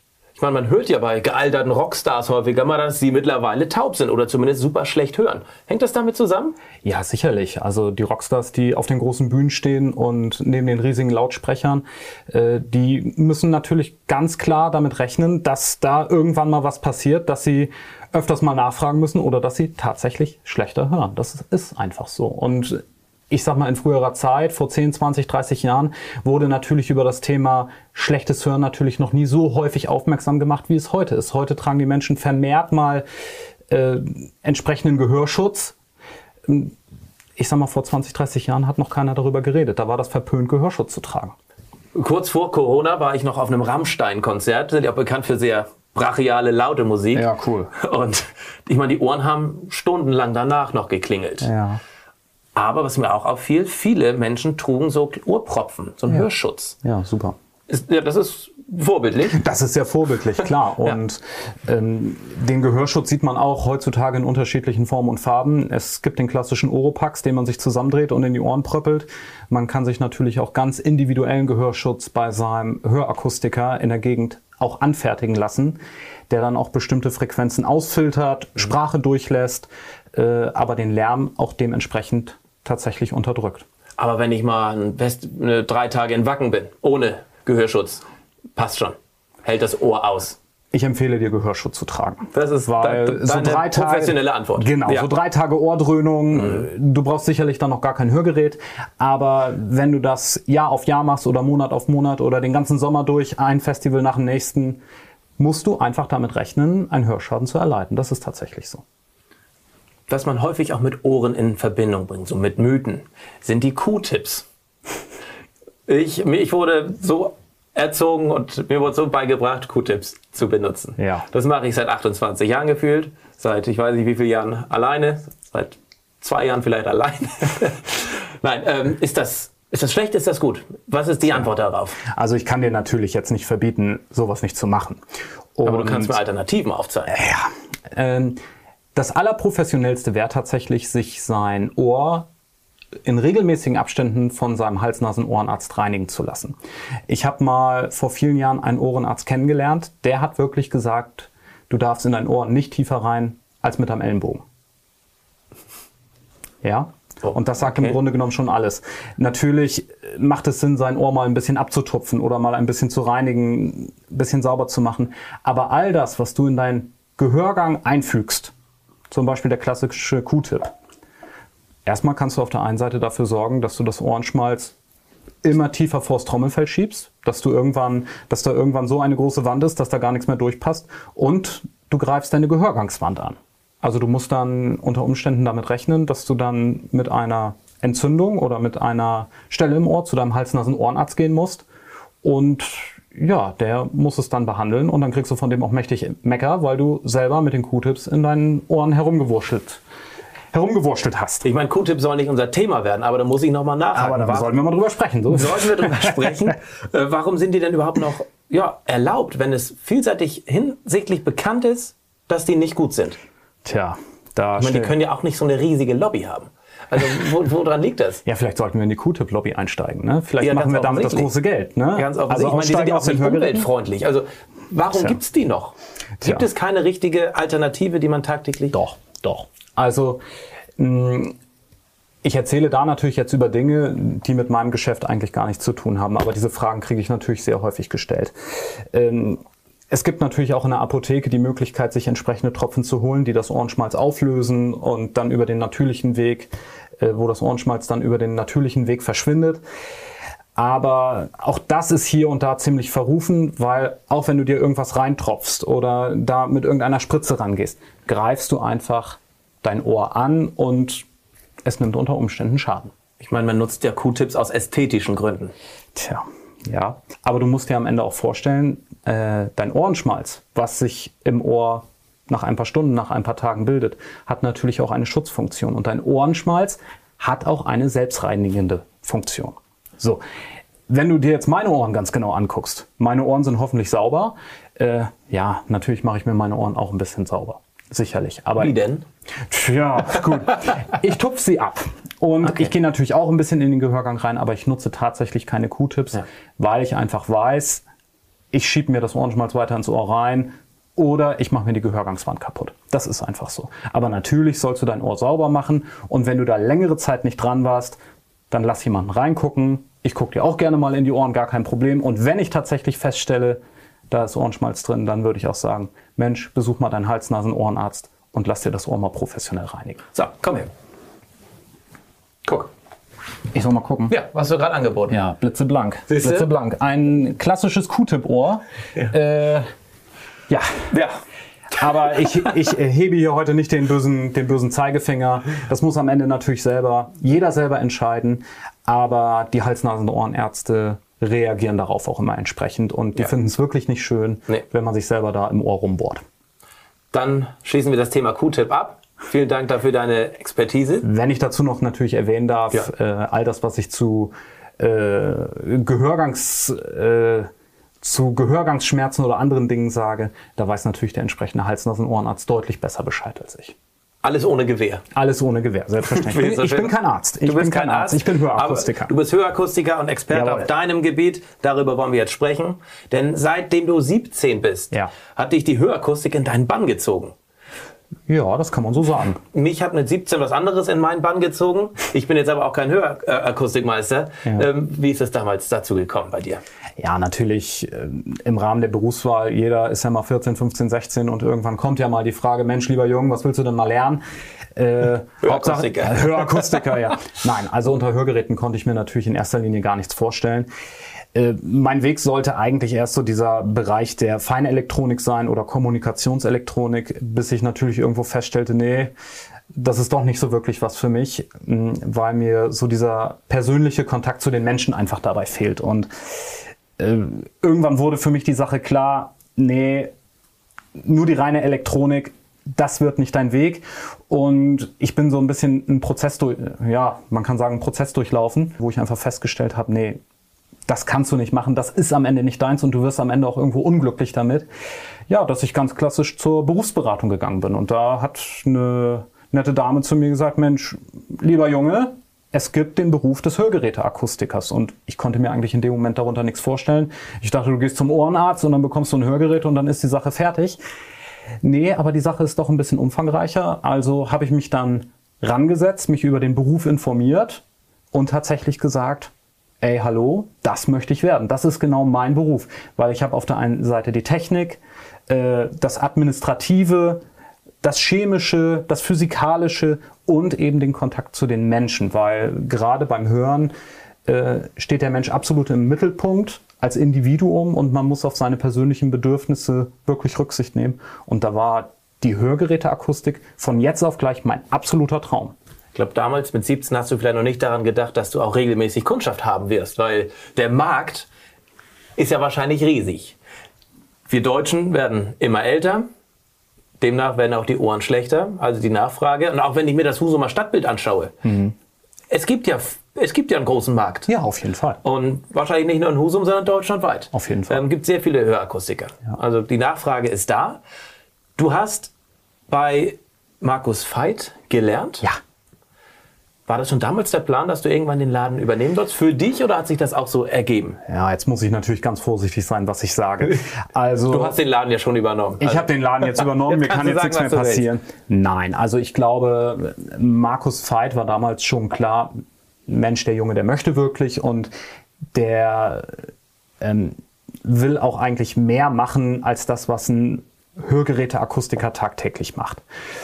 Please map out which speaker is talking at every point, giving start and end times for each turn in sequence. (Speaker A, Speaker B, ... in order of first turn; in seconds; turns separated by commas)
Speaker A: 0.4-6.5, Speaker B: 6.8-33.0, Speaker B: 33.7-35.8, Speaker B: 36.4-36.7, Speaker B: 37.4-41.3, Speaker A: 41.9-51.5, Speaker B: 47.1-47.7, Speaker B: 51.4-51.8, Speaker A: 52.5-56.8, Speaker B: 56.8-57.4, Speaker A: 57.7-59.4, Speaker B: 59.3-75.8, Speaker B: 76.3-83.7, Speaker A: 84.0-88.0, Speaker A: 88.5-90.4, Speaker B: 90.7-104.8, Speaker A: 92.3-95.1, Speaker B: 105.4-108.8, Speaker A: 110.1-114.5, Speaker A: 115.9-132.0, Speaker B: 121.0-121.2, Speaker B: 132.1-135.0, Speaker B: 135.6-136.2, Speaker A: 135.6-137.2, Speaker B: 137.1-138.4, Speaker B: 138.9-142.3, Speaker B: 143.0-146.5, Speaker B: 147.1-154.4, Speaker B: 156.6-168.5, Speaker A: 157.2-158.0, Speaker B: 169.1-170.7, Speaker B: 171.8-174.7, Speaker B: 175.4-191.6, Speaker B: 192.2-199.8, Speaker B: 200.5-201.4, Speaker A: 201.4-204.5, Speaker B: 203.9-206.3, Speaker A: 205.3-213.2, Speaker B: 213.6-214.9, Speaker A: 214.6-218.2, Speaker B: 218.2-223.7, Speaker A: 220.4-221.3, Speaker A: 221.9-228.8, Speaker B: 228.7-230.2, Speaker B: 230.8-231.3, Speaker B: 232.2-249.6, Speaker B: 250.6-261.0, Speaker B: 261.6-262.9, Speaker A: 263.2-265.5, Speaker B: 265.9-280.2, Speaker B: 280.9-288.7, Speaker A: 288.6-289.0, Speaker B: 289.5-297.8, Speaker A: 292.4-292.7, Speaker B: 298.5-308.0, Speaker B: 308.5-320.0, Speaker A: 320.1-320.7, Speaker B: 323.5-324.1, Speaker A: 324.1-325.2, Speaker B: 325.1-329.7, Speaker A: 326.1-326.5, Speaker B: 330.5-330.9, Speaker A: 330.9-331.2, Speaker B: 331.7-346.2, Speaker A: 347.1-351.1, Speaker B: 351.0-357.5, Speaker B: 358.0-363.8, Speaker A: 364.2-365.0, Speaker B: 365.1-369.1, Speaker A: 366.1-377.3, Speaker B: 370.3-370.7, Speaker B: 378.3-379.4, Speaker A: 379.5-386.6, Speaker B: 387.0-394.2, Speaker B: 394.8-400.7, Speaker A: 395.4-396.8, Speaker B: 401.3-409.1, Speaker B: 409.7-420.1, Speaker B: 421.0-430.2, Speaker B: 430.9-434.7, Speaker B: 435.3-450.8, Speaker B: 451.6-467.2, Speaker B: 467.8-473.7, Speaker B: 474.2-485.5, Speaker A: 485.9-491.3, Speaker A: 492.2-493.4, Speaker A: 494.3-496.1, Speaker A: 497.0-501.3, Speaker B: 501.4-501.7, Speaker A: 502.3-504.3, Speaker B: 504.3-505.0, Speaker A: 505.0-510.8, Speaker B: 507.3-507.8, Speaker A: 511.6-512.1, Speaker A: 512.7-515.3, Speaker A: 516.7-521.0, Speaker B: 521.0-524.6, Speaker A: 524.3-527.9, Speaker B: 525.6-532.3, Speaker B: 532.9-534.7, Speaker B: 535.3-536.2, Speaker B: 536.8-542.8